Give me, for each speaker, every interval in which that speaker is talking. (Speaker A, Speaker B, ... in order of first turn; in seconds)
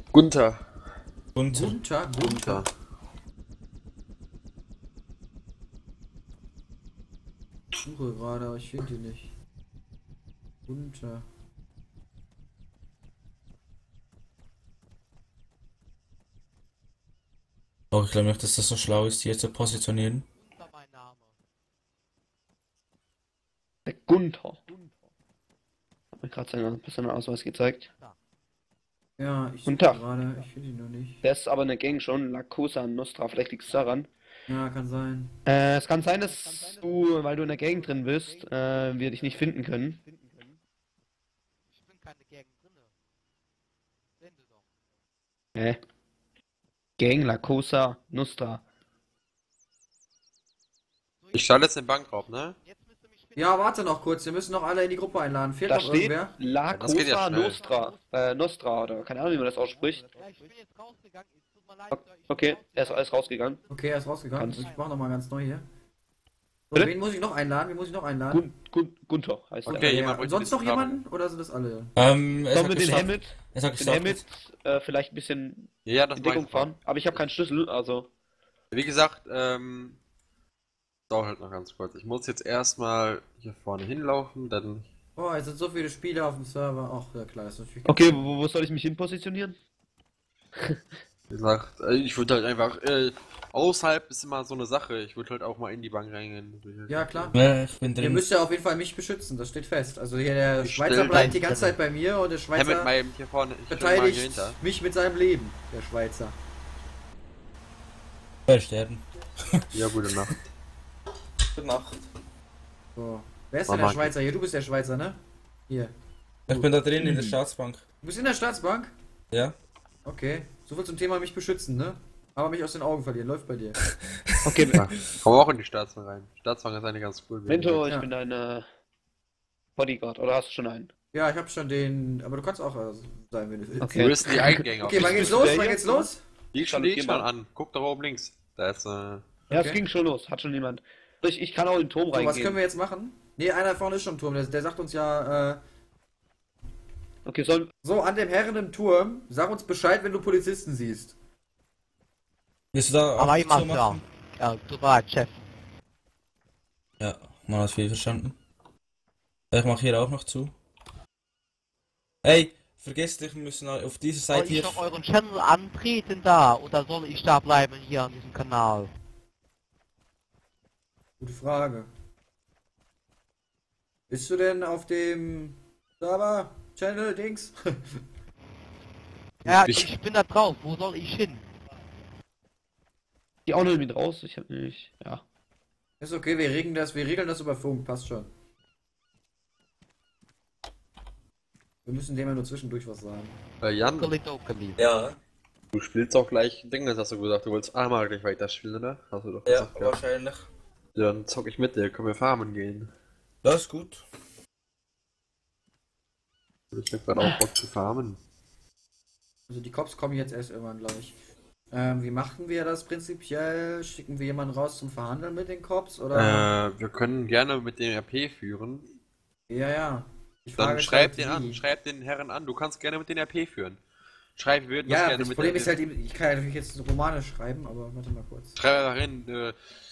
Speaker A: 0.1-0.6, 2.2-2.7, 51.3-52.6, 56.7-57.6, 69.7-71.0, 75.9-77.2, 78.7-80.0, 81.1-84.9, 91.3-97.3, 100.6-101.3, 102.5-104.6, 109.7-110.4, 113.7-114.1, 124.7-127.8, 133.9-135.6, 136.5-139.3, 179.5-179.9, 193.6-194.1, 195.7-200.0, 200.9-202.9, 206.7-208.2, 216.1-218.9, 220.6-223.8, 224.4-225.7, 228.6-229.6
Speaker B: 1.4-1.8, 17.9-20.3, 72.0-74.2, 97.3-98.2, 108.5-109.6, 111.5-112.0, 116.5-117.8, 124.2-124.9, 152.7-154.0, 157.0-158.4, 159.5-160.5, 162.2-164.8, 194.8-195.2, 199.5-200.5, 203.4-204.0
Speaker C: 1.5-2.6, 7.8-9.3, 10.7-11.3, 29.2-31.2, 34.5-35.4, 53.4-56.4, 63.7-65.7, 66.7-68.5, 69.7-71.9, 85.2-88.3, 96.9-97.3, 98.0-102.9, 103.7-106.4, 113.0-115.9, 118.0-119.0, 120.0-123.8, 131.1-134.1, 134.8-136.2, 139.5-139.8, 142.1-145.6, 147.8-151.2, 171.2-171.9, 174.1-178.0, 186.0-188.3, 191.8-193.4, 209.5-211.2, 211.7-216.5, 219.5-221.6, 224.8-228.6
Speaker D: 20.4-21.3, 41.7-42.9, 44.2-44.6, 51.2-51.7, 52.6-53.5, 57.5-58.2, 60.0-63.3, 101.1-101.7, 153.2-155.4, 164.3-168.9, 179.4-181.5, 194.0-194.8
Speaker E: 23.9-24.8, 26.2-27.9, 29.7-30.0, 31.2-34.1, 35.5-40.0, 47.0-48.6, 55.7-60.4, 61.9-63.6, 64.3-64.7, 68.3-69.9, 72.5-78.1, 87.8-89.6, 116.5-117.3, 124.5-124.8, 127.5-128.7, 129.8-130.9, 133.8-137.3, 139.5-142.6, 147.3-147.7, 183.5-185.2